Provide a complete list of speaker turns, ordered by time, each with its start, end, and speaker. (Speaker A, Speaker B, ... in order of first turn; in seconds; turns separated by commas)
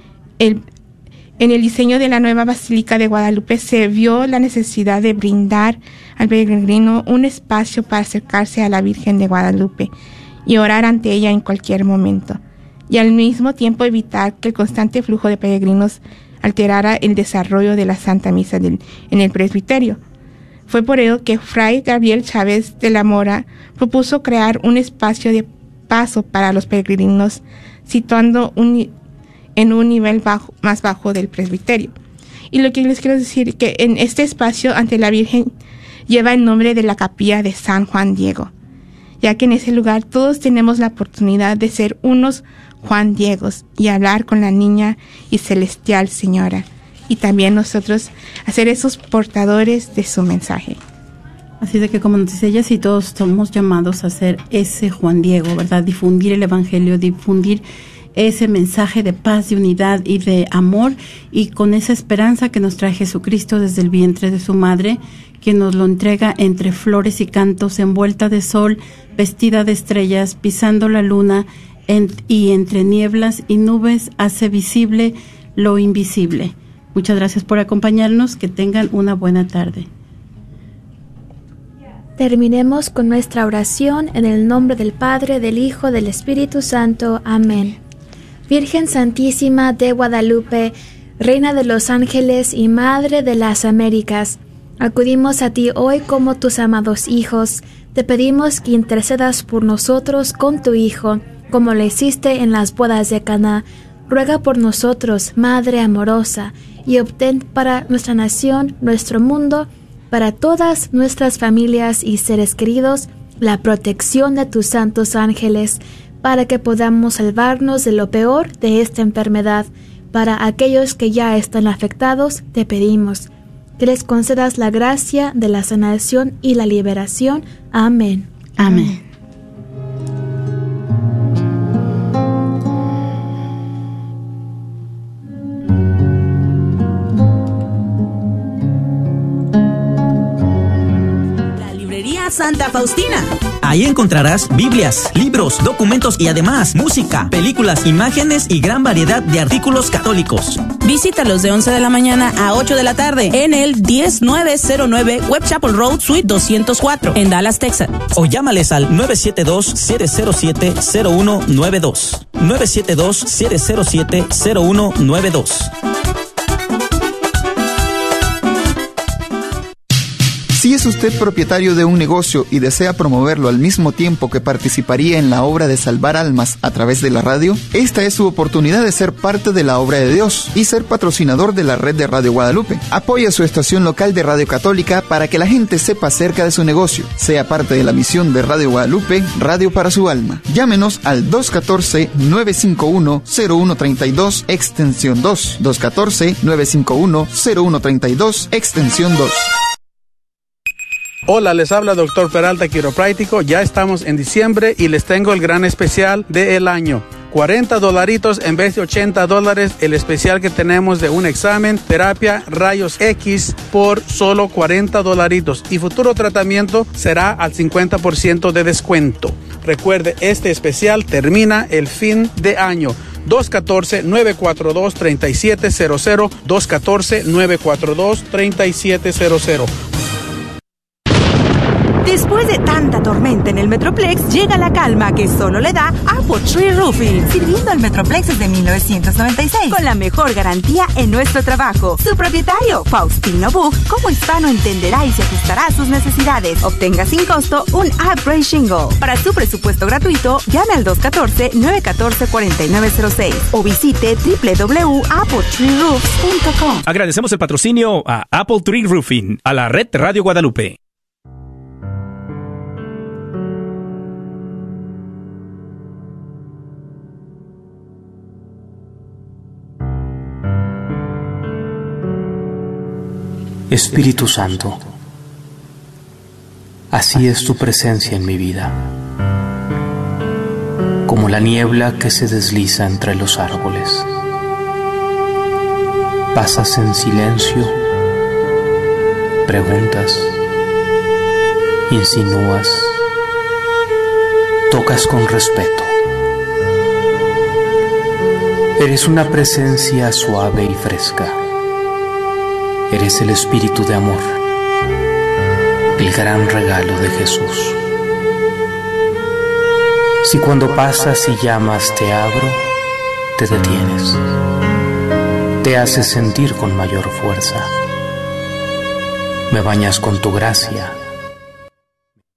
Speaker A: 1.4-9.9, Speaker A: 10.4-20.0, Speaker A: 20.7-28.9, Speaker A: 29.6-31.9, Speaker A: 32.5-35.5, Speaker A: 36.1-38.5, Speaker A: 39.2-50.8, Speaker B: 51.6-57.6, Speaker B: 58.1-79.9, Speaker C: 82.2-87.8, Speaker C: 88.5-128.3, Speaker B: 128.6-129.0, Speaker D: 141.7-143.3, Speaker E: 143.6-150.6, Speaker D: 150.7-158.1, Speaker E: 158.2-161.9, Speaker F: 158.3-165.6, Speaker E: 162.6-165.4, Speaker G: 170.5-199.5, Speaker H: 201.3-229.7, Speaker I: 232.0-256.8, Speaker J: 256.8-260.8, Speaker F: 273.7-274.9, Speaker F: 276.9-278.9, Speaker F: 281.1-284.1, Speaker F: 286.3-287.7, Speaker F: 289.4-290.4, Speaker F: 291.9-293.0, Speaker F: 294.7-295.9, Speaker F: 298.8-301.4, Speaker F: 302.9-304.3, Speaker F: 305.9-307.8, Speaker F: 310.2-312.6, Speaker F: 313.4-314.2, Speaker F: 315.6-317.7, Speaker F: 319.5-320.9